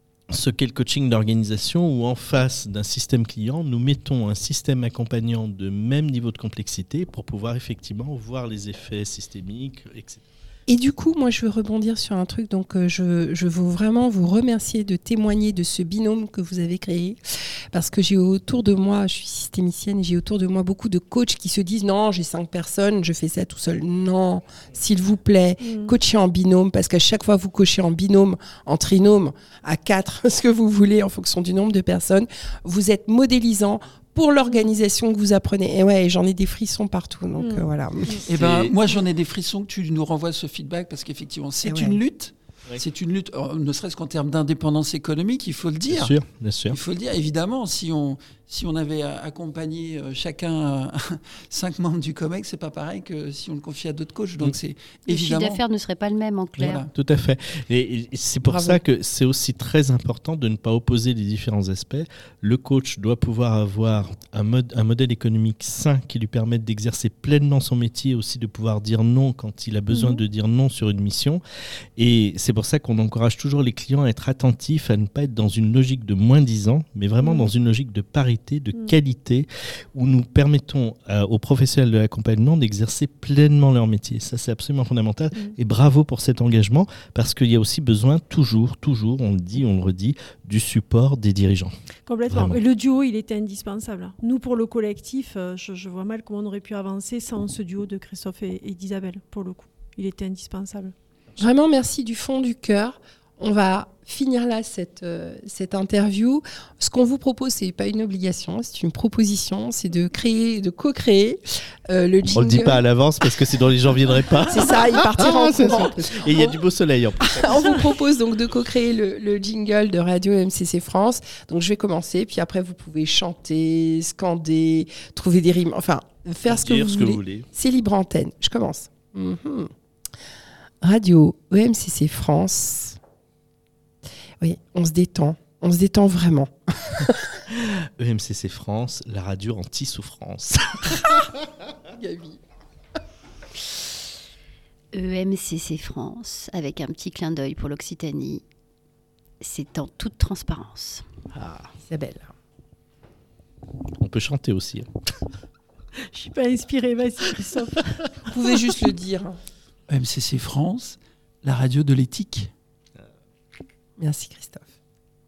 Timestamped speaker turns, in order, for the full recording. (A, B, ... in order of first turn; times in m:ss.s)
0:00.3-0:10.2 A
0:10.7-0:38.2 B
0:25.6-0:25.9 C
0:37.4-0:38.2 C
0:38.3-0:55.6 D
0:38.3-0:38.7 A
0:41.6-0:42.0 B
0:45.9-0:46.8 A
0:55.1-0:56.8 E
0:56.6-0:56.9 D
0:56.9-1:11.4 A
0:58.4-0:58.8 B
1:09.9-1:10.2 C
1:12.0-1:31.7 A
1:17.2-1:17.5 C
1:32.1-1:40.9 C
1:32.3-1:32.6 A
1:41.4-1:52.8 B
1:52.3-1:57.8 A
1:54.5-1:56.6 B
1:57.2-2:09.7 B
2:06.4-2:07.5 A
2:10.8-2:13.0 B
2:14.4-2:17.3 B
2:17.5-2:21.3 A
2:21.9-2:22.4 B
2:24.9-2:28.4 E
2:29.4-2:31.0 E
2:31.4-2:32.3 B
2:34.0-2:34.9 A
2:36.1-2:38.3 C
2:38.3-2:39.4 B
2:39.9-2:42.5 D
2:44.0-2:44.7 B